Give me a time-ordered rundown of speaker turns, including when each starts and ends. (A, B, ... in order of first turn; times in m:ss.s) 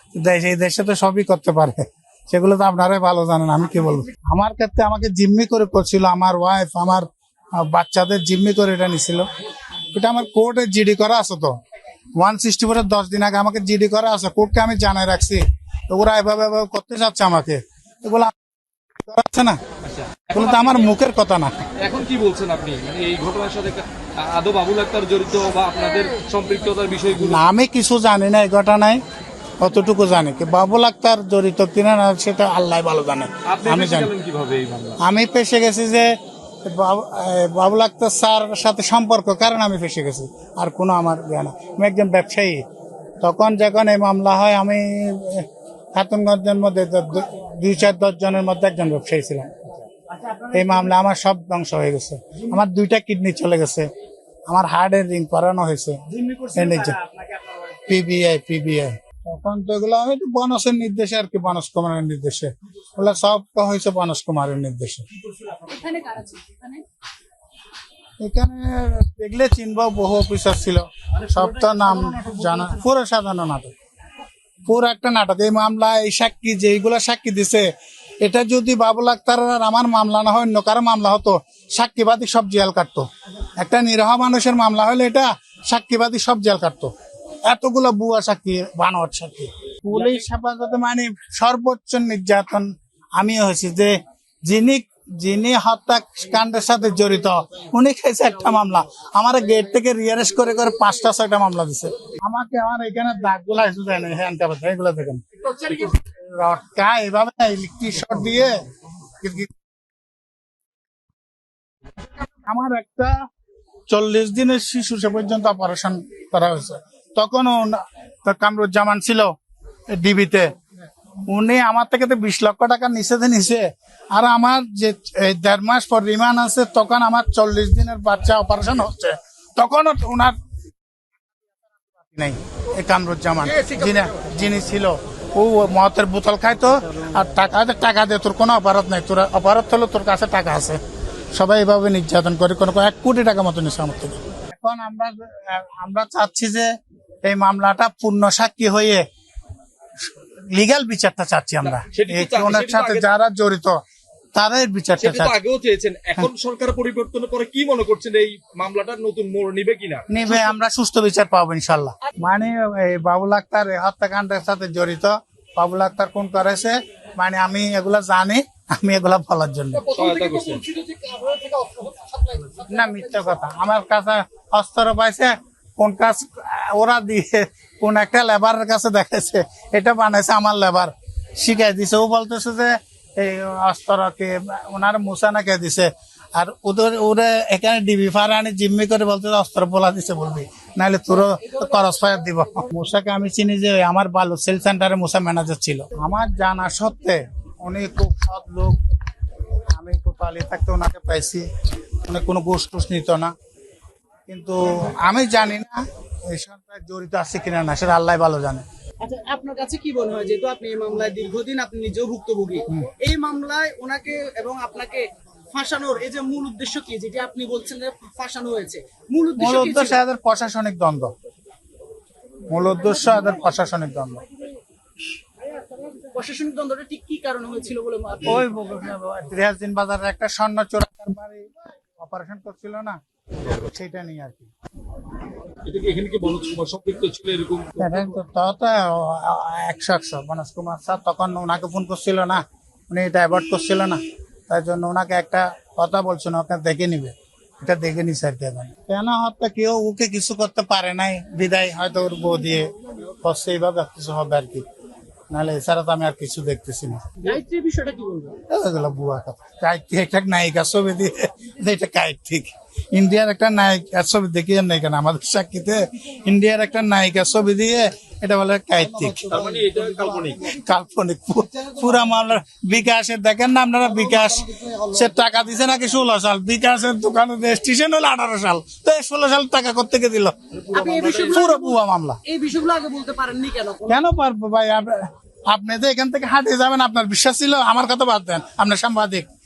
0:00.2-0:09.2 A
0:09.9-0:11.6 A
0:12.2-0:18.3 A
0:19.0-0:19.6 A
0:19.8-0:20.9 B
0:20.3-0:21.5 A
0:21.8-0:27.4 B
0:27.1-0:29.0 A
0:29.6-0:34.1 A
0:33.4-0:35.0 B
0:35.0-0:42.6 A
0:43.2-0:49.6 A
0:50.4-0:53.9 A
0:54.5-0:57.0 A
0:57.8-1:05.1 A
1:05.6-1:06.8 C
1:08.2-1:13.7 A
1:14.6-1:17.7 A
1:18.2-1:26.9 A
1:27.5-1:34.0 A
1:29.9-1:30.2 B
1:34.5-1:48.6 A
1:49.2-1:49.5 A
1:52.5-1:53.1 A
1:53.9-1:59.3 A
1:59.9-2:00.5 A
2:01.3-2:10.4 A
2:11.5-2:20.8 A
2:21.3-2:26.7 A
2:27.2-2:29.0 A
2:30.5-2:33.8 A
2:31.8-2:33.1 B
2:34.4-2:35.3 A
2:35.0-2:40.1 B
2:40.1-2:49.9 A
2:49.9-2:50.7 B
2:50.0-2:52.5 C
2:52.5-3:18.8 A
3:11.3-3:12.7 C
3:19.7-3:21.5 A
3:22.0-3:23.3 A
3:24.3-3:28.6 A
3:29.0-3:40.0 C
3:39.4-3:41.1 A
3:42.5-3:44.2 A
3:45.5-3:48.5 C
3:48.2-3:54.5 A
3:55.6-3:58.0 B
3:57.8-4:14.7 A
4:15.3-4:17.2 A
4:17.2-4:18.4 C
4:18.5-4:29.4 A
4:29.3-4:30.5 B
4:30.4-4:40.4 A
4:40.5-4:41.4 B
4:40.7-4:44.0 C
4:41.3-4:42.2 A
4:43.9-4:49.3 A